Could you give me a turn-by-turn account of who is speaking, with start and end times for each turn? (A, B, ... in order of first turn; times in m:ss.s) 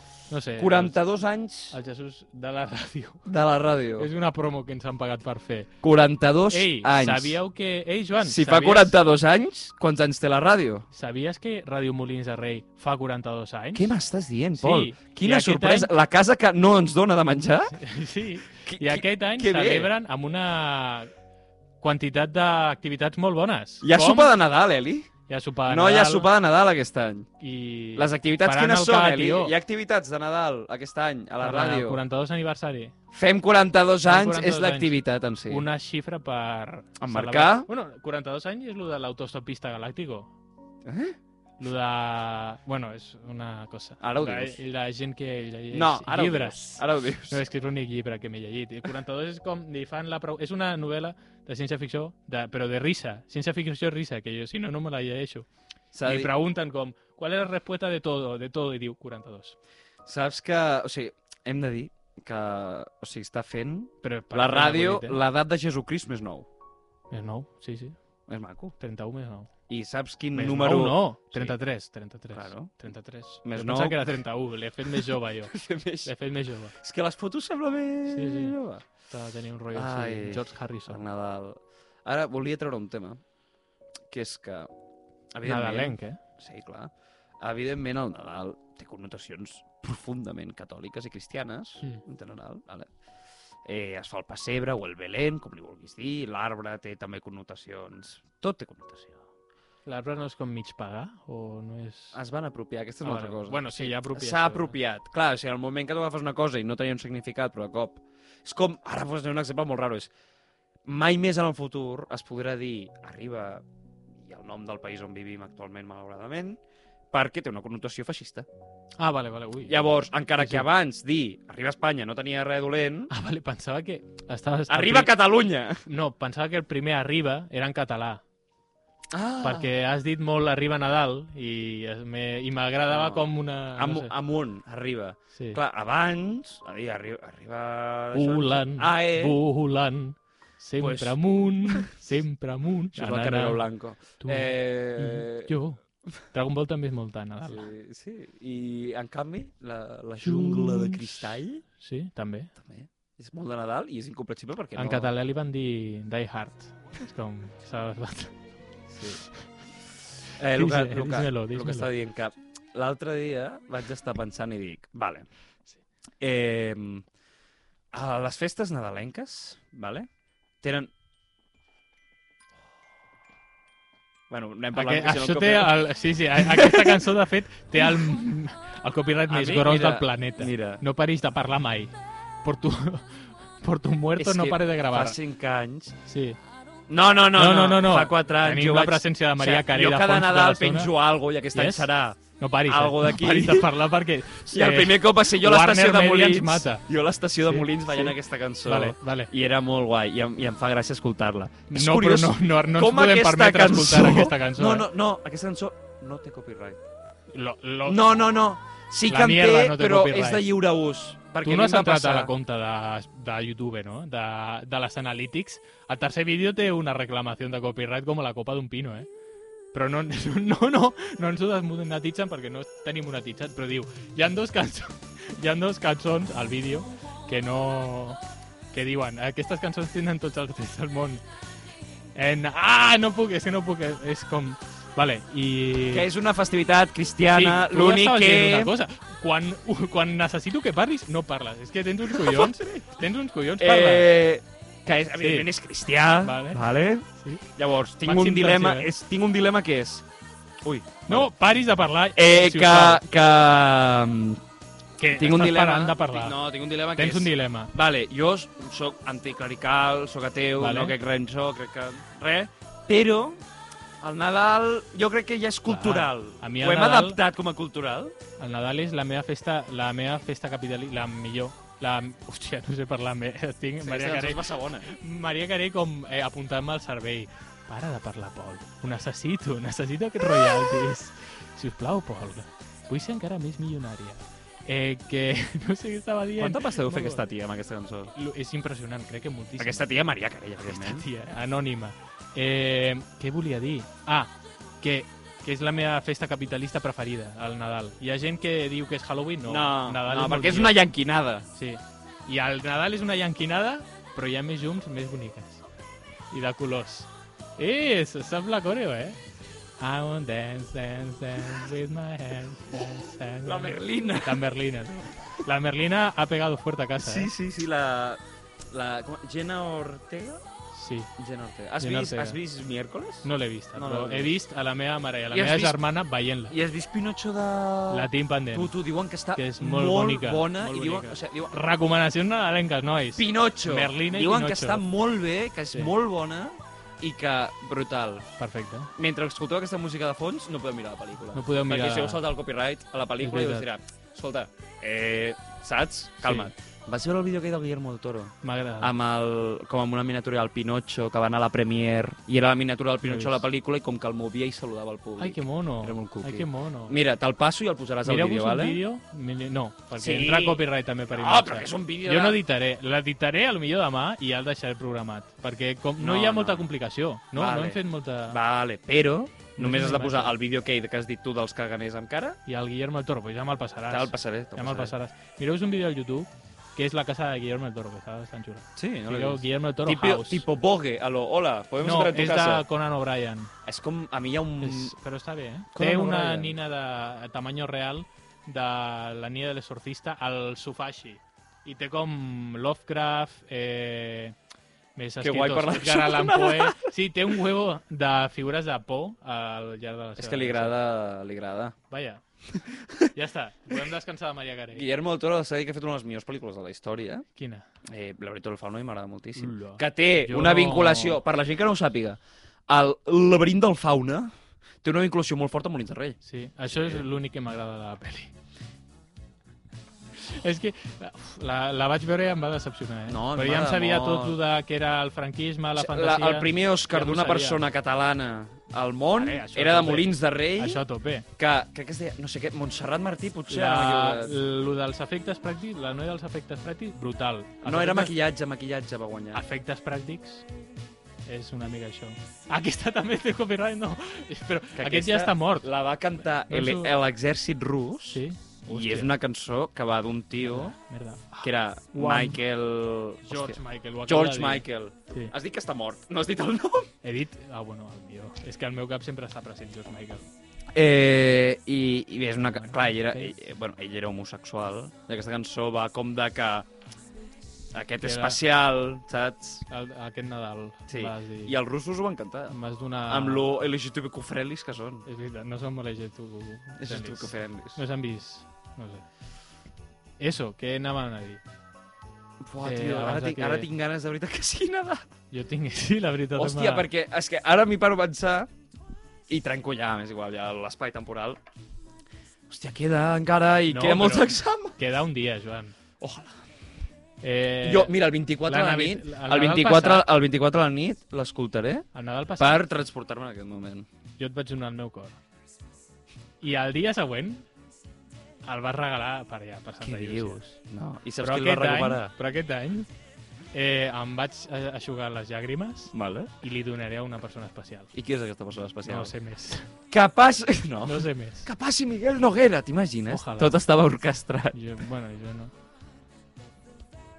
0:00.3-0:01.0 A
0:00.6-0:01.8 B
0:01.7-0:03.3 A
0:03.2-0:04.1 B
0:04.0-0:05.7 A
0:05.8-0:07.4 B
0:06.5-0:09.0 A
0:08.2-0:10.8 B
0:10.9-0:13.9 A
0:13.7-0:17.8 B
0:14.6-0:15.9 A
0:17.7-0:21.1 A
0:18.7-0:19.9 B
0:21.8-0:24.3 A
0:23.8-0:25.1 B
0:25.3-0:26.3 A
0:25.7-0:27.3 B
0:27.4-0:29.5 A
0:28.0-0:32.0 B
0:31.4-0:32.9 A
0:33.1-0:35.6 B
0:34.0-0:40.3 A
0:37.0-0:37.7 B
0:40.8-0:41.2 B
0:41.6-0:55.5 A
0:44.0-0:44.6 B
0:45.7-0:47.4 B
0:55.9-0:56.3 B
0:56.0-0:59.6 A
1:00.0-1:06.5 B
1:04.0-1:05.2 A
1:07.1-1:08.0 A
1:08.3-1:08.8 B
1:08.8-1:09.5 A
1:09.7-1:11.6 B
1:10.3-1:16.7 A
1:12.3-1:12.7 B
1:13.4-1:14.0 B
1:14.9-1:16.1 B
1:16.8-1:18.8 B
1:18.1-1:21.0 A
1:19.7-1:23.2 B
1:24.1-1:24.7 B
1:25.3-1:32.9 B
1:25.4-1:26.2 A
1:33.6-1:39.2 B
1:39.8-1:42.2 A
1:42.1-1:50.1 B
1:43.0-1:44.7 A
1:50.8-1:53.6 B
1:54.2-1:56.6 B
1:57.1-1:58.5 B
1:59.0-1:59.8 A
1:59.7-2:03.1 B
2:00.4-2:00.7 A
2:03.1-2:05.1 A
2:04.7-2:05.8 B
2:05.8-2:08.2 A
2:09.1-2:09.7 B
2:09.4-2:14.1 A
2:12.9-2:19.4 B
2:18.1-2:23.6 A
2:20.8-2:21.9 B
2:22.9-2:25.5 B
2:24.2-2:25.8 A
2:26.3-2:27.7 A
2:27.4-2:31.6 B
2:30.2-2:32.5 A
2:32.6-2:35.1 B
2:34.7-2:38.4 A
2:38.9-2:39.2 B
2:39.2-2:39.4 A
2:40.4-2:45.2 B
2:40.5-2:41.9 A
2:46.2-2:47.0 B
2:47.9-2:50.1 B
2:50.6-2:50.9 B
2:54.3-2:55.7 B
2:54.7-3:05.2 A
2:56.4-2:57.0 B
2:59.3-3:00.8 B
3:04.2-3:05.9 B
3:06.0-3:06.4 A
3:06.9-3:13.7 B
3:07.3-3:10.9 A
3:11.5-3:16.8 A
3:14.4-3:26.8 B
3:17.5-3:19.3 A
3:21.7-3:24.9 A
3:27.3-3:28.1 A
3:27.8-3:32.3 B
3:29.1-3:30.4 A
3:31.4-3:39.1 A
3:39.7-3:48.2 A
3:48.7-3:51.2 A
3:52.1-3:56.1 A
3:55.9-3:58.7 B
3:57.3-4:04.1 A
4:02.1-4:02.8 B
4:03.6-4:10.0 B
4:05.2-4:05.5 A
4:06.2-4:06.6 A
4:08.0-4:08.9 A
4:10.6-4:11.3 B
4:11.1-4:13.0 A
4:12.2-4:14.4 B
4:15.0-4:16.4 A
4:15.2-4:23.4 B
4:16.9-4:17.7 A
4:20.6-4:21.0 A
4:24.0-4:28.1 B
4:25.7-4:27.2 A
4:28.4-4:47.2 A
4:33.8-4:34.9 B
4:40.3-4:40.9 B
4:46.4-4:48.1 B
4:48.1-4:49.9 A
4:49.6-4:51.1 B
4:50.6-5:00.8 A
4:59.4-5:01.4 B
5:01.5-5:05.6 A
5:06.3-5:09.2 A
5:09.8-5:17.3 A
5:13.4-5:14.4 B
5:17.0-5:20.4 B
5:20.7-5:21.1 A
5:21.2-5:24.4 B
5:21.8-5:22.4 A
5:23.2-5:26.5 A
5:25.3-5:25.8 B
5:26.5-5:31.7 B
5:27.9-5:28.7 A
5:29.3-5:34.8 A
5:33.2-5:38.2 B
5:38.4-5:38.9 A
5:39.0-5:58.8 B
5:41.3-5:42.2 A
5:43.2-5:43.7 A
5:46.2-5:46.5 A
5:48.4-5:48.9 A
5:53.0-5:53.4 A
5:55.2-5:57.0 A
5:58.0-6:08.4 A
5:59.9-6:02.4 B
6:06.0-6:06.7 B
6:07.3-6:12.4 B
6:09.6-6:10.3 A
6:12.4-6:20.4 A
6:13.9-6:14.9 B
6:18.8-6:22.6 B
6:21.8-6:23.5 A
6:23.6-6:24.9 B
6:24.6-6:34.4 A
6:25.7-6:26.5 B
6:35.0-6:40.8 A
6:35.2-6:36.9 B
6:40.2-6:41.7 B
6:41.9-6:42.2 A
6:42.6-6:43.1 B
6:43.1-6:44.8 A
6:44.7-6:47.2 B
6:47.3-6:47.6 A
6:47.9-6:54.3 B
6:49.4-6:51.2 A
6:54.8-6:57.0 B
6:56.2-6:58.3 A
7:00.2-7:07.6 A
7:03.1-7:04.4 B
7:05.8-7:10.8 B
7:09.1-7:11.3 A
7:11.4-7:14.4 B
7:13.5-7:18.1 A
7:17.6-7:19.4 B
7:19.3-7:20.4 A
7:21.2-7:25.7 A
7:24.8-7:30.8 B
7:26.5-7:26.9 A
7:28.1-7:29.1 A
7:30.4-7:32.4 A
7:31.4-7:36.9 B
7:33.2-7:35.3 A
7:37.0-7:40.2 A
7:40.7-7:46.7 B
7:42.6-7:43.3 A
7:47.7-7:49.6 B
7:48.0-7:48.4 A
7:49.7-7:51.6 A
7:50.9-7:52.6 B
7:52.5-7:53.4 A
7:53.1-7:55.0 B
7:55.0-7:59.0 A
7:56.8-7:57.8 B
8:00.2-8:01.4 A
8:02.4-8:05.1 B
8:02.6-8:03.7 A
8:05.3-8:06.9 A
8:06.3-8:08.5 B
8:09.3-8:11.4 B
8:12.5-8:14.8 B
8:13.7-8:15.7 A
8:16.0-8:16.4 B
8:17.2-8:20.1 A
8:17.6-8:21.9 B
8:21.9-8:22.6 A
8:22.4-8:23.9 B
8:24.2-8:25.2 A
8:26.4-8:27.4 A
8:28.4-8:30.4 A
8:29.8-8:32.1 B
8:31.2-8:32.9 A
8:33.5-8:37.9 A
8:35.9-8:36.3 B
8:37.9-8:39.1 B
8:38.8-8:39.7 A
8:39.9-8:44.5 B
8:40.8-8:41.5 A
8:43.1-8:43.6 A
8:44.5-8:45.5 A